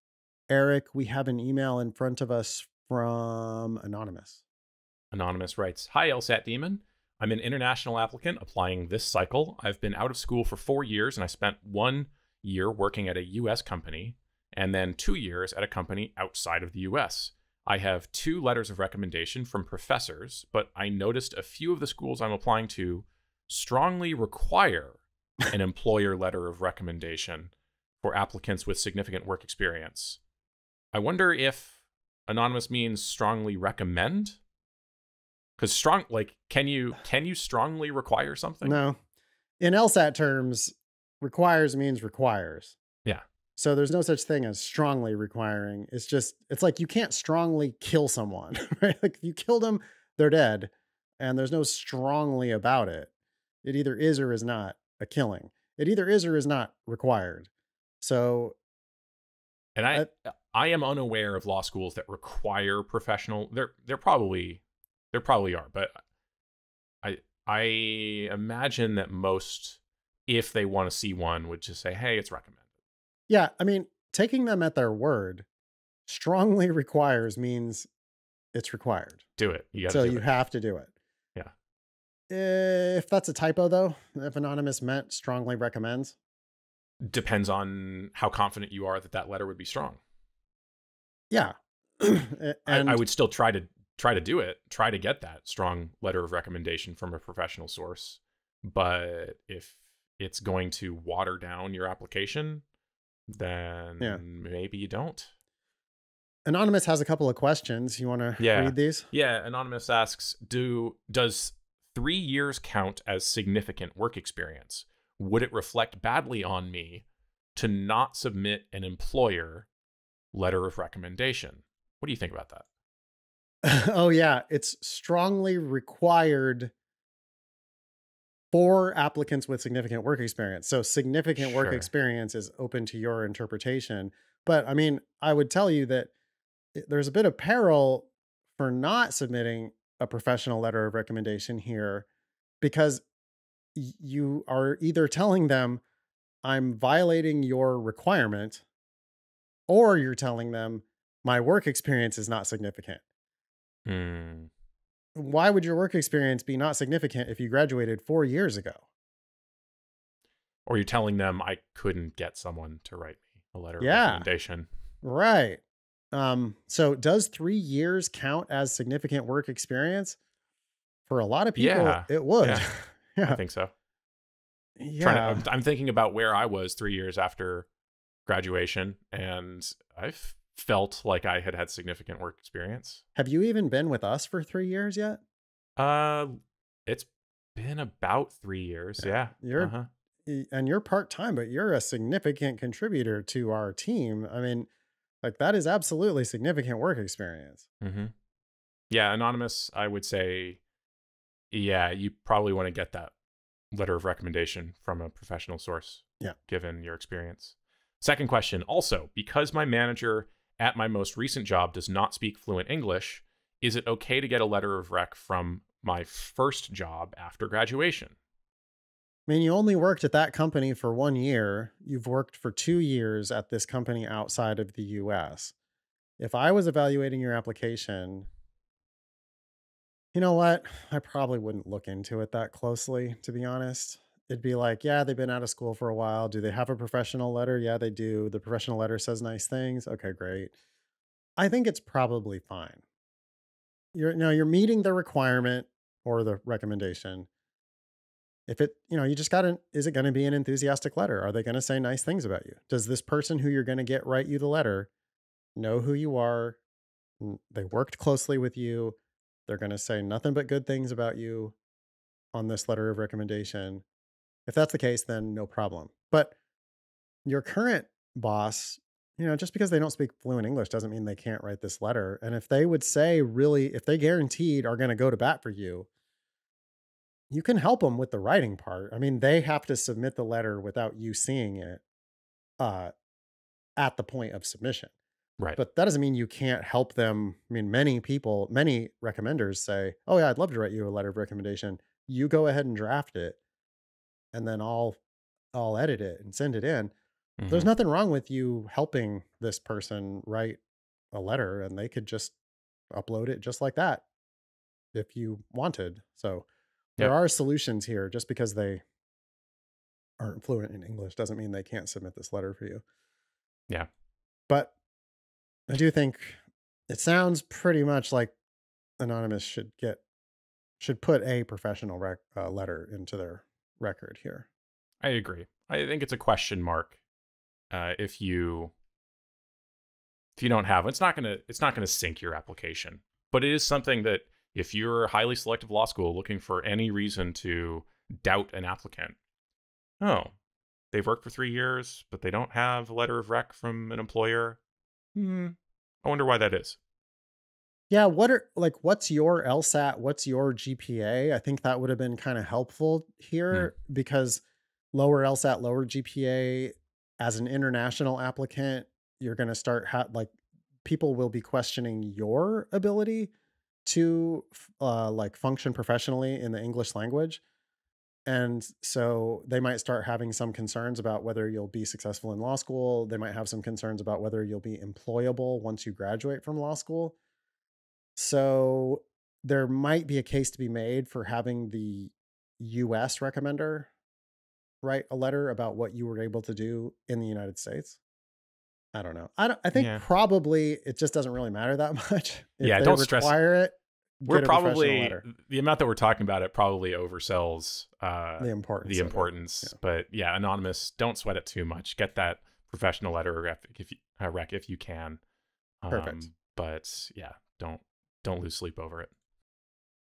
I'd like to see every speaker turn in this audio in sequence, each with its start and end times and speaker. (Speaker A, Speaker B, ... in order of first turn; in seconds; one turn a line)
Speaker A: 0.5-4.4
Speaker B: 5.1-30.2
Speaker B: 30.9-31.7
Speaker B: 32.3-34.4
Speaker B: 35.6-38.8
Speaker A: 38.6-39.0
Speaker A: 39.6-42.8
Speaker A: 43.6-53.1
Speaker A: 53.6-57.5
Speaker A: 58.0-58.6
Speaker B: 59.8-65.9
Speaker B: 67.0-72.6
Speaker A: 73.3-75.4
Speaker A: 76.1-77.9
Speaker A: 78.5-79.2
Speaker B: 79.4-80.3
Speaker A: 79.9-80.9
Speaker A: 82.3-86.2
Speaker B: 87.0-90.0
Speaker A: 91.3-93.0
Speaker B: 92.7-102.6
Speaker B: 103.3-105.3
Speaker A: 106.5-109.1
Speaker B: 108.4-117.0
Speaker B: 117.5-119.7
Speaker B: 120.3-122.7
Speaker A: 123.6-126.7
Speaker A: 128.5-136.1
Speaker B: 131.4-131.9
Speaker A: 136.7-142.1
Speaker A: 142.6-143.0
Speaker A: 143.7-145.8
Speaker A: 146.4-148.6
Speaker A: 149.7-153.0
Speaker B: 153.8-154.5
Speaker A: 155.2-158.8
Speaker B: 160.7-164.7
Speaker A: 163.8-164.3
Speaker A: 165.0-165.6
Speaker A: 166.1-170.2
Speaker A: 171.1-173.4
Speaker B: 171.6-172.7
Speaker B: 173.2-173.7
Speaker A: 174.8-175.4
Speaker B: 175.0-177.7
Speaker B: 178.2-183.0
Speaker A: 183.2-185.2
Speaker B: 185.8-186.3
Speaker B: 186.9-189.9
Speaker A: 189.0-189.7
Speaker A: 190.2-194.7
Speaker A: 195.2-197.7
Speaker B: 197.8-198.1
Speaker B: 198.9-200.6
Speaker B: 201.5-203.1
Speaker B: 203.7-218.1
Speaker A: 219.3-225.5
Speaker A: 226.2-228.3
Speaker A: 230.1-240.5
Speaker A: 241.4-242.8
Speaker A: 243.9-247.3
Speaker A: 248.5-254.9
Speaker A: 255.6-256.6
Speaker A: 257.2-261.5
Speaker A: 262.3-263.8
Speaker A: 264.4-266.3
Speaker A: 267.2-275.9
Speaker A: 277.3-281.8
Speaker A: 282.6-282.9
Speaker A: 283.8-284.9
Speaker A: 285.6-293.4
Speaker A: 294.3-295.0
Speaker A: 295.5-296.9
Speaker B: 297.4-297.7
Speaker A: 297.5-300.6
Speaker A: 301.1-302.3
Speaker A: 302.9-304.0
Speaker A: 304.9-306.4
Speaker A: 307.0-308.8
Speaker A: 310.2-312.8
Speaker A: 315.7-316.4
Speaker A: 316.9-318.3
Speaker A: 319.0-320.0
Speaker A: 320.8-324.4
Speaker B: 325.0-327.0
Speaker B: 327.7-328.7
Speaker B: 330.4-339.1
Speaker B: 340.0-340.3
Speaker B: 340.9-344.6
Speaker B: 345.1-346.8
Speaker A: 347.9-354.4
Speaker A: 354.9-360.3
Speaker A: 360.8-363.3
Speaker A: 363.8-367.4
Speaker A: 368.3-377.1
Speaker A: 378.1-383.9
Speaker A: 384.8-388.0
Speaker A: 388.9-395.2
Speaker B: 389.7-390.0
Speaker B: 392.6-393.3
Speaker B: 394.3-405.2
Speaker A: 398.4-399.8
Speaker B: 405.8-409.1
Speaker A: 405.9-406.2